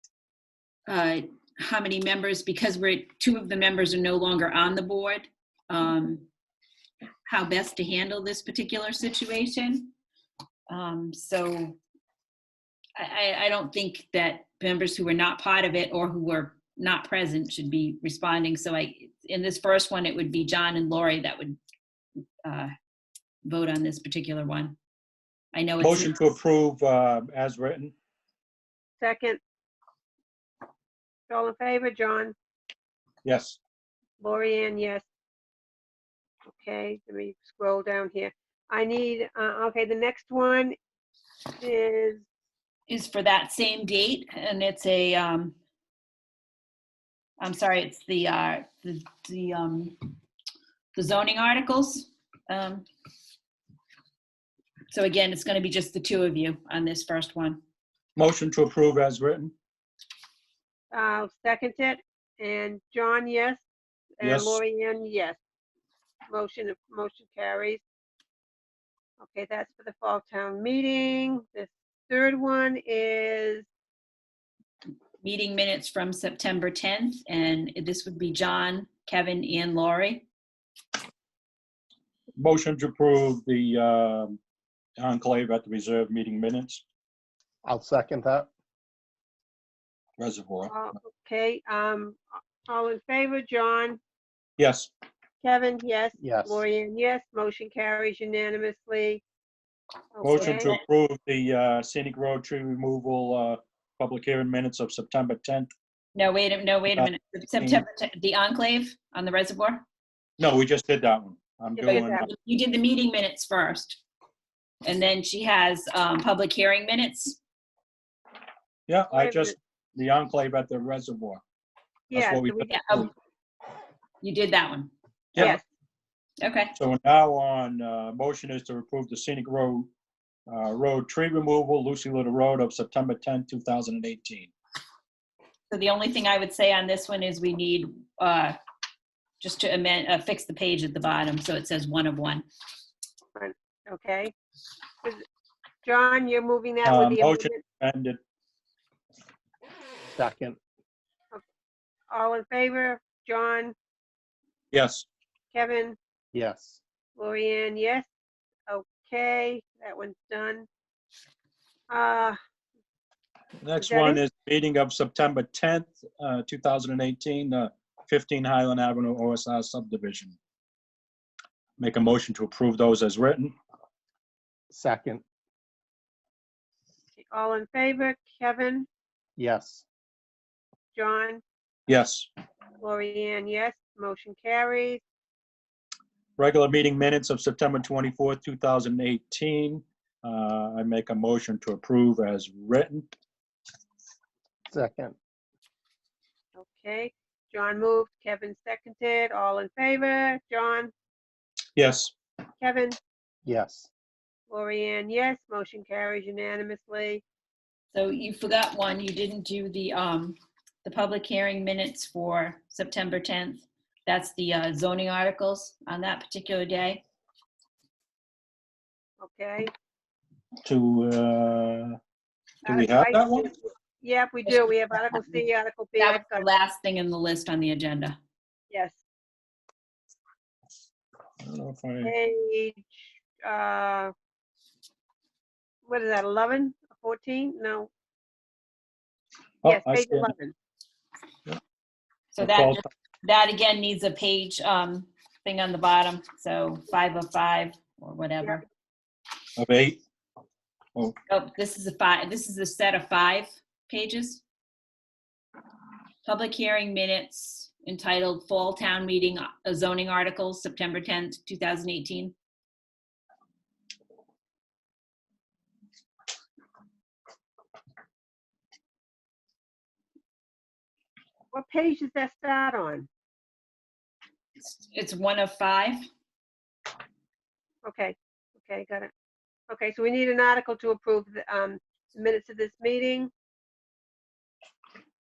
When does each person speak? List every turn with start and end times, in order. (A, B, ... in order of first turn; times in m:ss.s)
0:00.9-0:06.3 A
0:07.3-0:09.9 A
0:10.7-0:11.8 A
0:13.0-0:21.6 A
0:22.4-0:22.7 A
0:23.4-0:24.8 A
0:25.5-0:26.1 A
0:25.8-0:27.9 B
0:29.0-0:29.4 C
0:31.3-0:32.3 C
0:33.2-0:33.6 B
0:34.2-0:35.0 C
0:36.5-0:40.8 C
0:41.6-0:42.2 C
0:42.9-0:45.6 A
0:47.4-0:50.2 A
0:51.0-0:52.9 A
0:54.9-0:57.6 A
0:58.2-0:59.5 B
1:00.9-1:03.6 C
1:04.2-1:05.4 C
1:04.2-1:04.6 B
1:06.3-1:07.8 C
1:09.2-1:13.7 C
1:15.2-1:20.2 A
1:22.4-1:24.4 B
1:25.0-1:26.8 B
1:27.6-1:28.5 D
1:30.2-1:30.8 B
1:30.7-1:34.0 C
1:34.6-1:34.9 B
1:35.4-1:39.2 C
1:36.2-1:36.6 D
1:40.2-1:40.7 C
1:40.2-1:45.7 B
1:46.2-1:49.8 A
1:47.0-1:47.8 B
1:50.4-1:52.3 B
1:51.8-1:52.3 C
1:51.9-1:54.0 A
1:54.8-1:57.4 A
1:58.9-2:01.4 B
1:59.1-1:59.5 C
2:02.1-2:03.1 B
2:02.1-2:02.7 C
2:02.7-2:03.1 A
2:04.2-2:04.9 A
2:05.4-2:05.6 C
2:06.4-2:06.8 A
2:06.8-2:09.9 B
2:10.5-2:14.5 B
2:15.7-2:18.6 A
2:19.4-2:22.5 A
2:23.4-2:24.3 C
2:25.8-2:27.6 C
2:26.8-2:28.2 B
2:30.2-2:30.6 D
2:32.1-2:33.7 C
2:34.7-2:35.1 B
2:35.5-2:36.0 C
2:36.3-2:36.8 D
2:37.2-2:38.1 C
2:38.7-2:40.7 C
2:41.9-2:42.4 C
2:43.6-2:50.4 B
2:43.8-2:44.2 C
2:51.8-2:53.5 B
2:54.7-2:55.2 D
2:57.2-2:58.9 C
2:59.4-2:59.8 D
3:01.0-3:01.4 C
3:01.9-3:02.3 B
3:02.8-3:05.0 C
3:06.4-3:13.1 B
3:14.7-3:15.2 D
3:16.6-3:20.9 C
3:21.8-3:22.1 B
3:22.6-3:23.0 C
3:23.4-3:23.9 D
3:24.5-3:27.2 C
3:27.9-3:37.0 A
3:39.2-3:39.7 C
3:40.6-3:42.0 B
3:42.6-3:46.5 C
3:42.7-3:43.5 B
3:44.5-3:45.4 A
3:46.0-3:48.2 A
3:48.7-3:49.0 C
3:51.4-3:52.1 B
3:52.0-3:54.1 C
3:55.9-3:57.9 C
3:59.6-4:00.3 B
3:59.6-4:00.5 C
4:02.3-4:08.6 A
4:02.4-4:02.8 B
4:09.6-4:10.0 B
4:11.3-4:14.4 A
4:16.2-4:22.4 A
4:31.5-4:33.1 C
4:34.6-4:36.1 A
4:37.8-4:39.1 C
4:39.7-4:43.3 C